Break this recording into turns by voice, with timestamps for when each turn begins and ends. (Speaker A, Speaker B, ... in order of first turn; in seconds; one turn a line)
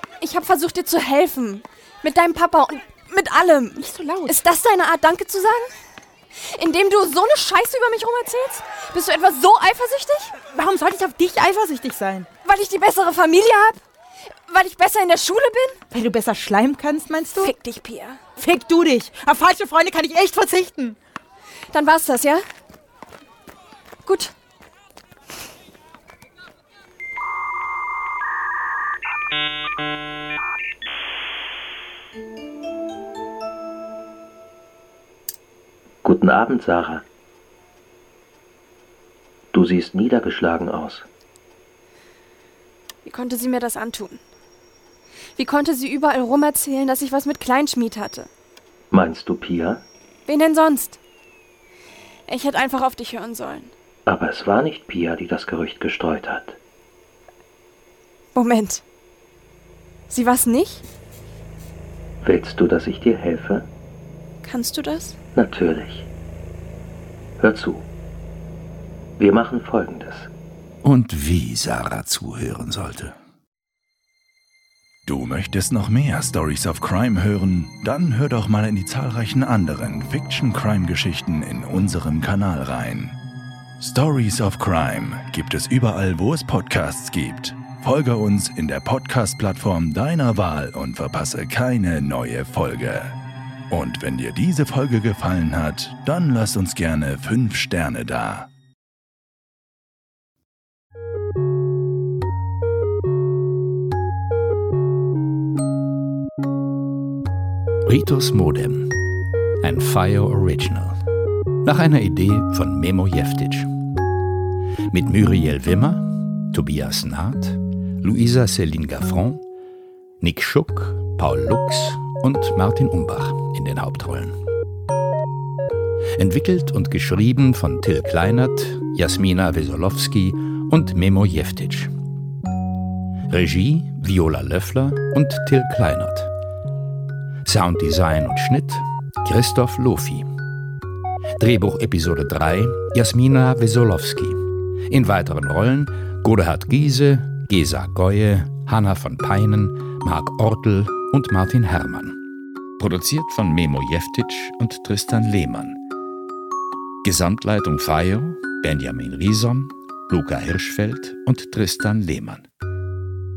Speaker A: 0.2-5.7
Speaker B: 3.8-4.3
Speaker A: 6.4-10.3
Speaker B: 10.5-12.3
Speaker A: 12.4-13.8
Speaker A: 14.5-15.8
Speaker B: 15.9-17.5
Speaker A: 17.3-18.2
Speaker B: 18.4-21.0
Speaker A: 21.7-22.4
Speaker A: 24.0-24.3
Speaker C: 36.0-37.0
Speaker C: 39.5-41.0
Speaker A: 43.0-44.2
Speaker A: 45.3-48.3
Speaker C: 48.9-49.8
Speaker A: 50.2-51.0
Speaker A: 52.3-53.7
Speaker C: 54.1-56.6
Speaker A: 58.3-58.8
Speaker A: 60.1-60.8
Speaker C: 62.2-63.7
Speaker A: 64.4-65.2
Speaker C: 65.3-66.1
Speaker C: 67.4-67.9
Speaker C: 69.2-70.3
Speaker D: 70.8-73.2
Speaker E: 75.0-83.1
Speaker E: 83.8-93.1
Speaker E: 93.7-98.5
Speaker D: 107.8-108.9
Speaker D: 109.6-111.0
Speaker D: 111.6-113.7
Speaker D: 114.9-119.4
Speaker D: 120.2-124.3
Speaker D: 126.2-131.9
Speaker D: 133.3-136.3
Speaker D: 137.4-140.3
Speaker D: 141.4-152.2
Speaker D: 152.8-155.8
Speaker D: 157.0-162.5